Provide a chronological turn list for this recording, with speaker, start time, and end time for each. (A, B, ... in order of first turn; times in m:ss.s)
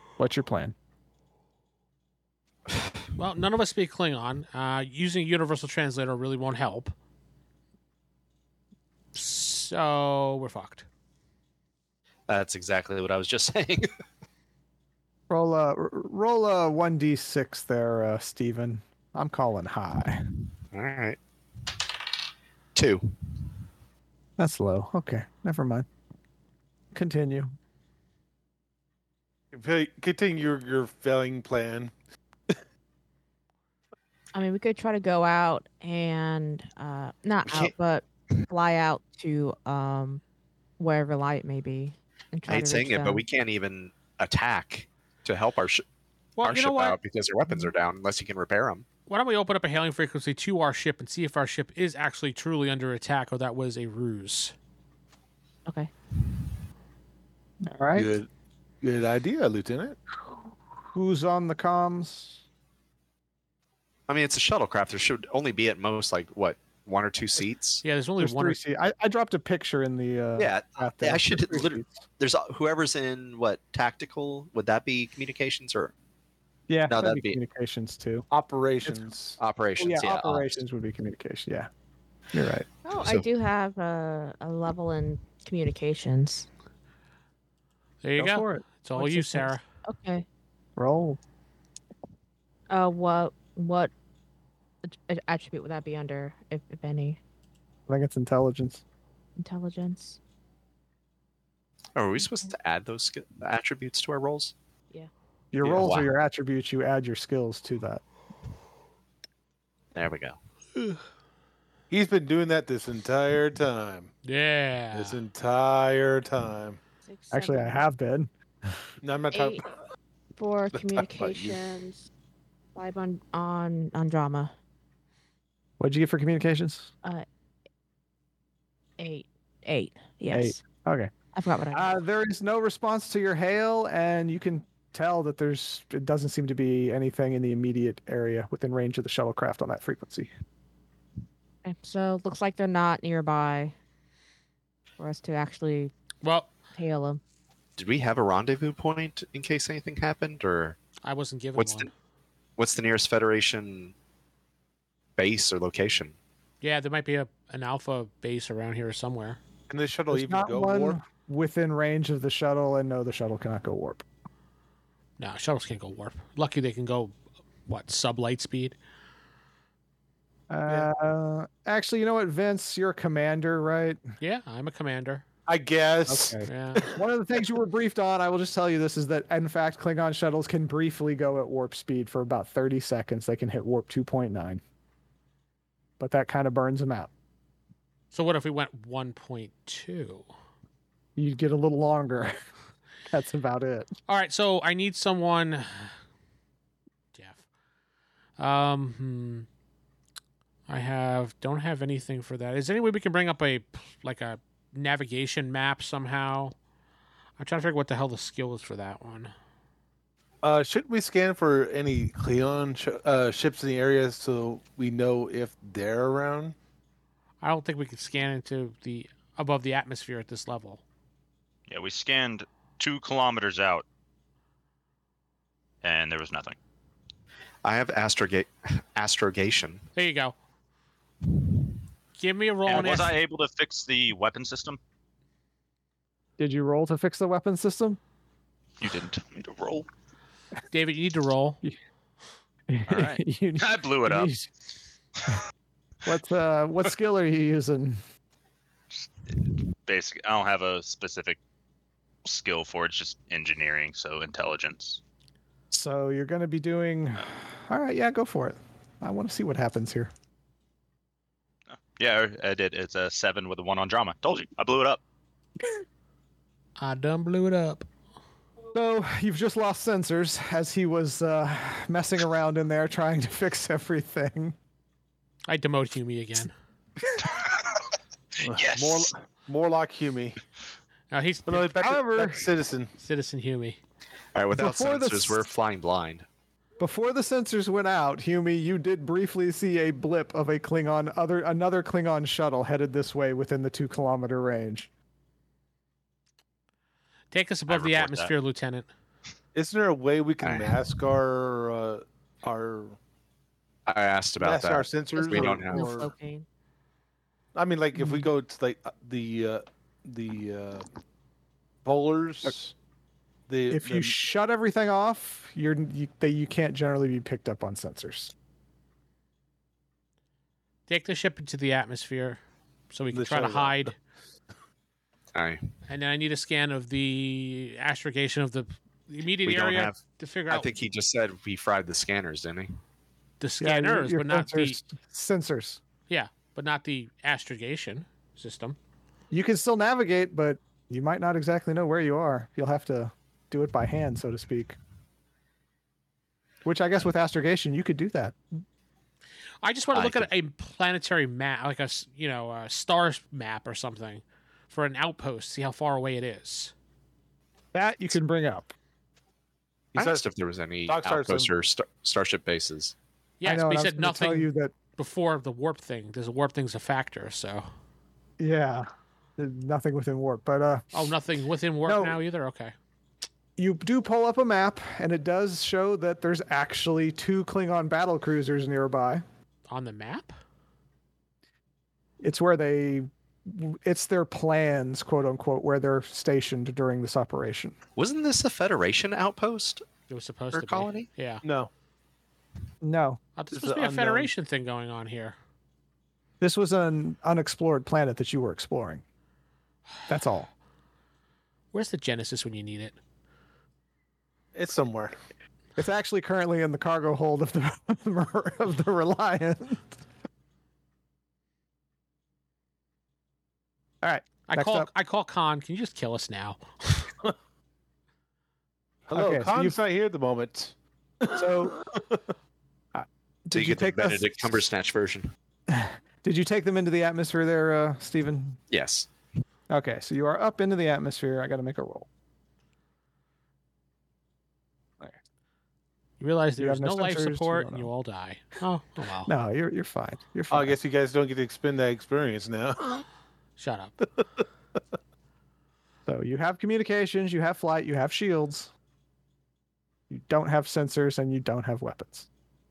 0:00.2-0:00.8 A
0:03.2-0:06.9 B
0:09.1-0:10.8 B
0:12.3-0:13.9 C
0:15.3-0:20.2 A
0:20.7-0:21.2 C
0:22.7-0:23.2 C
0:24.4-0:25.9 A
0:26.9-0:27.5 A
0:29.5-0:31.9 D
0:34.3-0:40.2 E
0:37.5-0:37.7 C
0:40.8-0:43.2 E
0:42.5-0:45.8 C
0:46.4-0:47.0 B
0:46.4-0:48.8 C
0:49.1-0:54.5 B
0:57.6-0:58.1 A
0:57.9-0:58.3 D
0:58.8-1:00.0 D
1:00.9-1:02.4 A
1:04.1-1:07.8 C
1:07.8-1:08.6 B
1:08.2-1:12.0 A
1:10.4-1:15.9 C
1:16.7-1:18.3 A
1:16.9-1:17.4 C
1:18.3-1:19.4 D
1:19.4-1:20.5 C
1:19.8-1:21.7 A
1:22.3-1:22.7 A
1:22.8-1:26.5 E
1:22.9-1:23.2 C
1:28.0-1:29.6 B
1:28.2-1:29.5 A
1:29.8-1:30.2 E
1:30.8-1:31.2 A
1:32.7-1:33.9 E
1:34.8-1:37.2 E
1:37.9-1:38.8 A
1:39.4-1:40.2 E
1:42.0-1:44.5 C
1:45.5-1:48.0 A
1:45.6-1:46.1 C
1:49.9-1:50.4 C
1:51.9-1:54.1 D
1:54.2-1:55.2 B
1:54.9-1:56.8 D
1:57.0-1:57.8 E
1:57.3-1:58.3 A
1:59.0-1:59.7 D
1:59.3-1:59.6 E
2:00.3-2:02.1 E
2:00.8-2:01.6 D
2:02.7-2:04.5 E
2:05.8-2:06.9 A
2:09.0-2:10.6 E
2:10.3-2:11.1 A
2:11.3-2:11.9 E
2:11.7-2:20.3 A
2:21.6-2:23.7 E
2:25.0-2:25.9 E
2:26.2-2:26.5 B
2:26.7-2:27.2 E
2:27.8-2:30.8 C
2:31.0-2:31.9 B
2:31.6-2:31.9 C
2:32.6-2:33.9 C
2:35.2-2:36.1 C
2:36.6-2:39.4 B
2:39.7-2:41.0 D
2:40.1-2:44.0 A
2:45.2-2:48.8 B
2:50.5-2:54.0 A
2:54.2-2:55.2 B
2:55.5-2:56.4 D
2:56.1-3:04.6 A
2:56.4-2:56.8 B
3:06.0-3:07.1 A
3:08.1-3:10.3 B
3:11.2-3:12.3 A
3:13.1-3:13.9 A
3:14.1-3:15.9 B
3:17.1-3:17.4 B
3:18.4-3:19.5 B
3:20.7-3:26.5 B
3:27.4-3:29.3 B
3:30.4-3:36.5 D
3:37.4-3:40.8 B
3:41.7-3:43.8 F
3:45.8-3:46.6 F
3:47.6-3:49.8 C
3:49.9-3:50.4 B
3:52.2-3:53.2 B
3:52.6-3:54.8 F
3:56.4-3:58.0 A
3:58.8-3:59.9 F
4:00.7-4:01.6 B
4:02.7-4:04.5 A
4:02.9-4:04.3 F
4:06.0-4:08.0 A
4:09.3-4:11.4 F
4:12.2-4:15.0 F
4:15.7-4:20.1 A
4:21.7-4:25.0 F
4:26.8-4:27.9 B
4:28.7-4:34.6 A
4:35.5-4:36.5 B
4:38.4-4:40.4 D
4:38.4-4:39.1 F
4:41.1-4:41.7 B
4:41.5-4:42.9 D
4:41.7-4:42.5 A
4:43.0-4:43.8 B
4:44.3-4:46.2 C
4:44.6-4:45.4 A
4:46.8-4:54.9 A
4:57.3-4:58.9 B
4:57.7-4:58.3 F
4:59.5-5:03.0 D
5:00.4-5:00.8 C
5:03.9-5:05.9 C
5:04.4-5:06.1 D
5:05.1-5:06.4 E
5:07.5-5:10.8 D
5:08.0-5:08.2 A
5:11.8-5:12.7 D
5:13.5-5:14.1 D
5:13.7-5:18.3 A
5:20.9-5:22.4 B
5:22.9-5:23.9 B
5:23.1-5:23.9 D
5:25.3-5:25.6 C
5:25.9-5:30.7 B
5:29.4-5:32.8 C
5:33.4-5:34.8 B
5:33.6-5:35.8 A
5:36.1-5:38.8 B
5:39.3-5:44.8 A
5:46.6-5:48.4 A
5:49.6-5:56.7 B
5:49.9-5:50.3 C
5:57.7-5:58.7 A
5:59.9-6:00.3 D
6:00.0-6:02.9 C
6:00.9-6:01.5 D
6:03.4-6:07.6 B
6:03.4-6:04.7 A
6:08.4-6:11.1 A
6:10.9-6:12.7 B
6:11.8-6:12.2 A
6:13.6-6:19.2 A
6:19.7-6:20.4 B
6:22.2-6:27.8 A
6:28.0-6:29.8 C
6:30.1-6:31.4 B
6:30.5-6:31.1 C
6:31.4-6:31.7 D
6:32.8-6:33.2 A
6:33.4-6:35.4 B
6:33.5-6:34.3 D
6:36.4-6:39.0 A
6:40.1-6:40.5 A
6:41.7-6:43.0 B
6:44.5-6:45.1 D
6:45.8-6:50.0 A
6:54.0-6:54.9 A
6:54.5-6:57.1 B
6:59.1-7:02.2 D
6:59.1-6:59.8 A
7:01.3-7:01.8 A
7:02.9-7:04.6 A
7:03.5-7:05.3 C
7:05.7-7:08.6 A
7:08.7-7:09.1 C
7:09.7-7:12.1 A
7:16.2-7:19.3 B
7:16.6-7:17.9 A
7:19.2-7:20.8 A
7:20.5-7:23.0 D
7:23.6-7:24.0 B
7:26.0-7:28.7 A
7:30.1-7:32.3 A